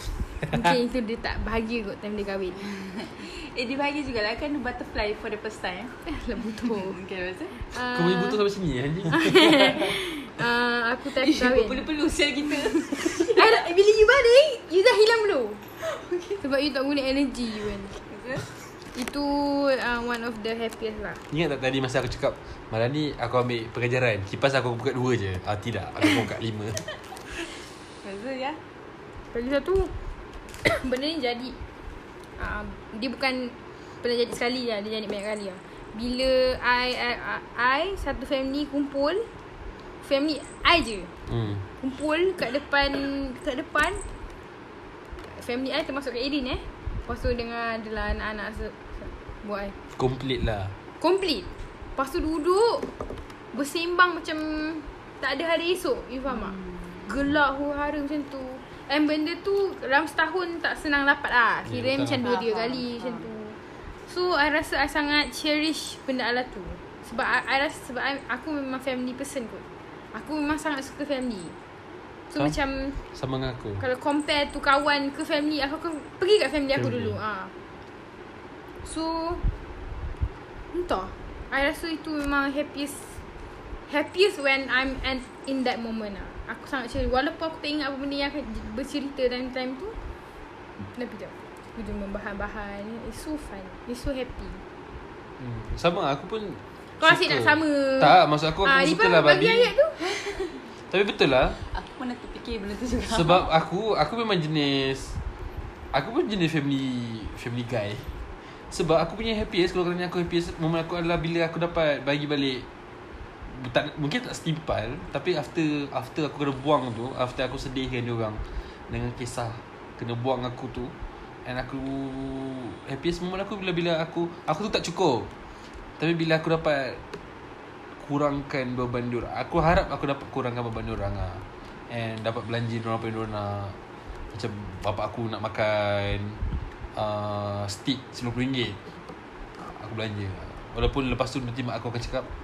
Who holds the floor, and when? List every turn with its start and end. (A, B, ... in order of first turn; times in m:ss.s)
0:00.4-0:02.6 A
0:02.6-0:05.9 B
0:06.0-0:07.0 A
0:06.6-0:07.6 B
0:07.6-0:08.4 A
0:07.9-0:09.3 C
0:09.1-0:11.8 A
0:11.2-0:13.6 B
0:13.1-0:15.6 A
0:15.8-0:16.4 B
0:16.4-0:17.9 A
0:18.1-0:18.5 B
0:18.9-0:21.2 A
0:21.3-0:26.8 C
0:28.0-0:28.6 B
0:29.3-0:29.9 A
0:30.6-0:31.6 A
0:32.4-0:39.3 A
0:40.0-0:41.1 A
0:41.3-0:41.6 C
0:41.8-0:44.0 A
0:45.3-0:49.7 A
0:49.9-0:50.7 C
0:51.0-0:52.9 A
0:53.5-0:56.6 A
0:56.3-0:57.1 B
0:57.1-1:03.6 A
1:01.7-1:02.2 C
1:02.2-1:03.3 B
1:04.1-1:11.6 A
1:12.3-1:13.0 A
1:13.1-1:13.8 C
1:13.8-1:17.5 A
1:16.8-1:17.2 C
1:18.8-1:19.4 A
1:20.7-1:23.2 A
1:23.9-1:29.9 A
1:30.9-1:34.6 A
1:35.4-1:39.7 C
1:37.0-1:40.3 A
1:40.9-1:41.6 C
1:41.7-1:43.5 B
1:43.1-1:45.1 C
1:45.9-1:48.1 C
1:48.7-1:52.6 C
1:53.5-1:58.4 C
1:58.9-2:00.9 C
2:01.4-2:05.3 C
2:06.0-2:07.0 C
2:08.0-2:13.8 C
2:14.3-2:16.4 C
2:17.0-2:18.8 C
2:19.6-2:22.3 C